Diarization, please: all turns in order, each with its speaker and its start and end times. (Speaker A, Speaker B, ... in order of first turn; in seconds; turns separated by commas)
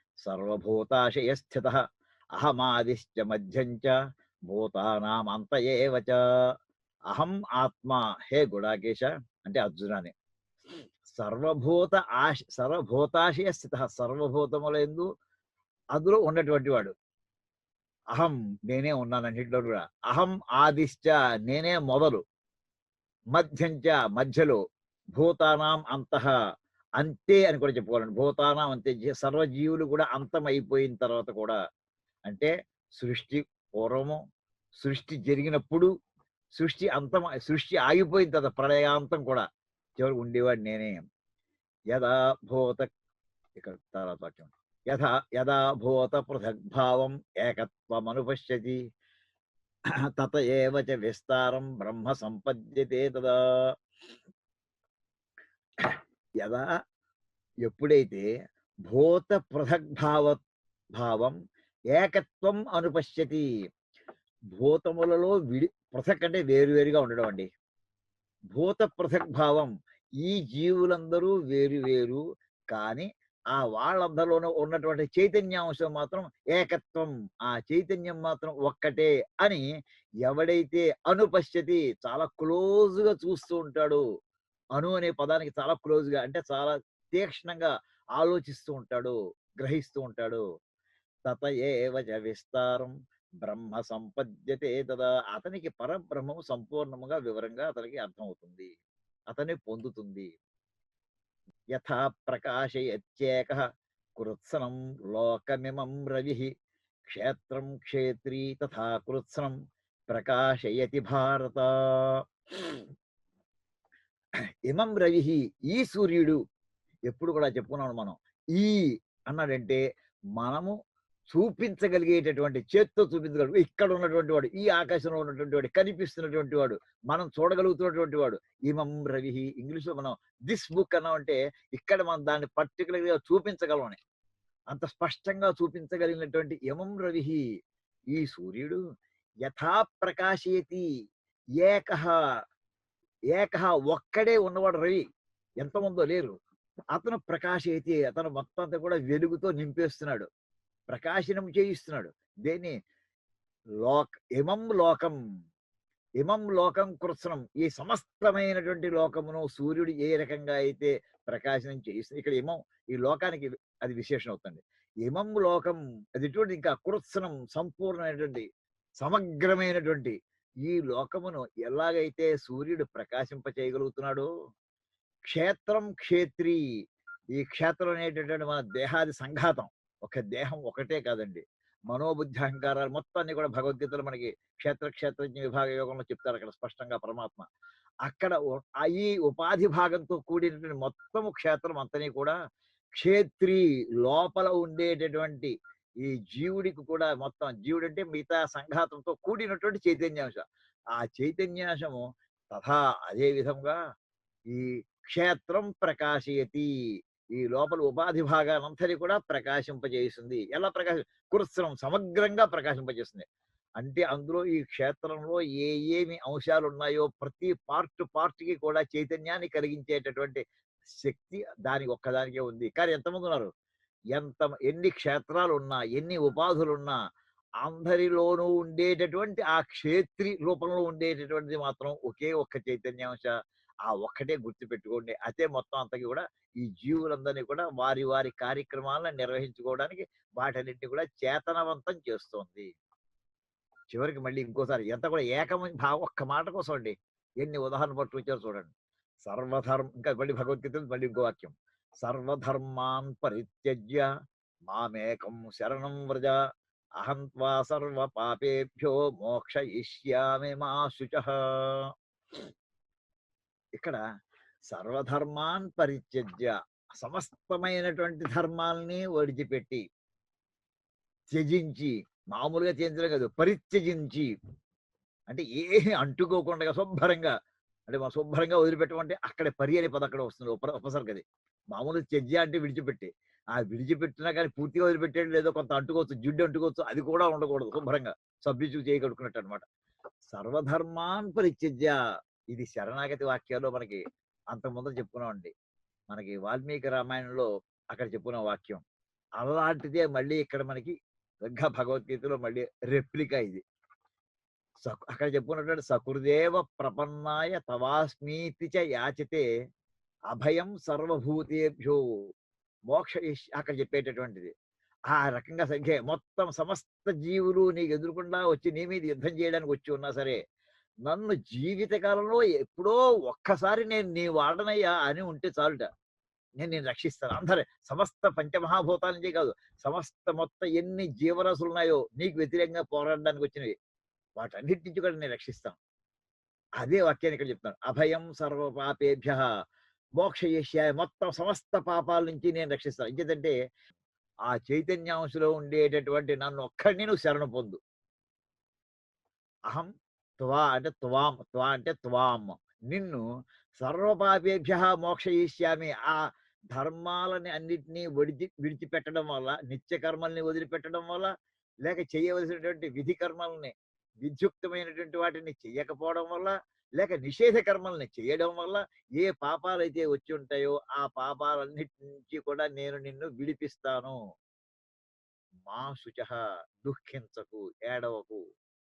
Speaker A: 0.2-1.8, Speaker A: 2.4-3.9, Speaker A: 4.5-6.2, Speaker A: 7.1-10.1, Speaker A: 11.1-15.1, Speaker A: 15.9-16.9, Speaker A: 18.1-22.2, Speaker A: 23.4-24.6, Speaker A: 25.2-26.3, Speaker A: 27.0-31.6, Speaker A: 32.3-34.2, Speaker A: 34.8-35.9, Speaker A: 36.6-39.5, Speaker A: 40.0-41.0, Speaker A: 41.9-42.9, Speaker A: 43.6-48.8, Speaker A: 50.1-53.4, Speaker A: 55.8-56.6, Speaker A: 57.7-58.3, Speaker A: 58.9-60.4, Speaker A: 61.0-61.3, Speaker A: 61.9-63.4, Speaker A: 64.5-67.5, Speaker A: 68.5-69.7, Speaker A: 70.2-72.2, Speaker A: 72.7-79.6, Speaker A: 80.2-84.0, Speaker A: 84.8-90.4, Speaker A: 91.3-92.9, Speaker A: 93.4-98.7, Speaker A: 99.3-100.3, Speaker A: 101.8-103.6, Speaker A: 104.2-106.5, Speaker A: 107.1-109.5, Speaker A: 110.1-112.8, Speaker A: 114.7-116.4, Speaker A: 117.1-119.8, Speaker A: 120.4-120.7, Speaker A: 121.3-134.0, Speaker A: 134.7-137.4, Speaker A: 138.1-138.8, Speaker A: 139.4-140.8, Speaker A: 141.6-142.1, Speaker A: 143.3-145.0, Speaker A: 145.6-146.3, Speaker A: 146.9-150.3, Speaker A: 150.9-152.7, Speaker A: 153.8-155.1, Speaker A: 156.2-168.4, Speaker A: 169.0-170.1, Speaker A: 170.6-174.3, Speaker A: 175.3-176.6, Speaker A: 177.4-187.4, Speaker A: 188.1-192.3, Speaker A: 193.0-200.4, Speaker A: 201.0-202.0, Speaker A: 202.5-203.8, Speaker A: 204.5-206.7, Speaker A: 207.3-213.2, Speaker A: 213.8-220.4, Speaker A: 221.0-223.5, Speaker A: 224.2-226.9, Speaker A: 227.6-233.3, Speaker A: 233.9-242.7, Speaker A: 243.9-248.7, Speaker A: 249.2-254.0, Speaker A: 254.7-256.3, Speaker A: 257.0-261.8, Speaker A: 264.7-269.8, Speaker A: 271.3-274.3, Speaker A: 275.3-277.3, Speaker A: 277.9-289.6, Speaker A: 290.3-291.9, Speaker A: 292.5-294.0, Speaker A: 294.5-295.5, Speaker A: 296.1-298.8, Speaker A: 299.4-300.9, Speaker A: 301.5-303.6, Speaker A: 304.9-309.4, Speaker A: 310.3-312.0, Speaker A: 312.9-314.5, Speaker A: 315.1-320.4, Speaker A: 321.1-325.9, Speaker A: 326.6-333.7, Speaker A: 334.4-335.8, Speaker A: 336.8-339.4, Speaker A: 340.2-343.5, Speaker A: 344.5-347.8, Speaker A: 350.4-353.2, Speaker A: 353.8-356.1, Speaker A: 356.7-361.3, Speaker A: 361.9-363.7, Speaker A: 364.2-374.1, Speaker A: 375.7-378.4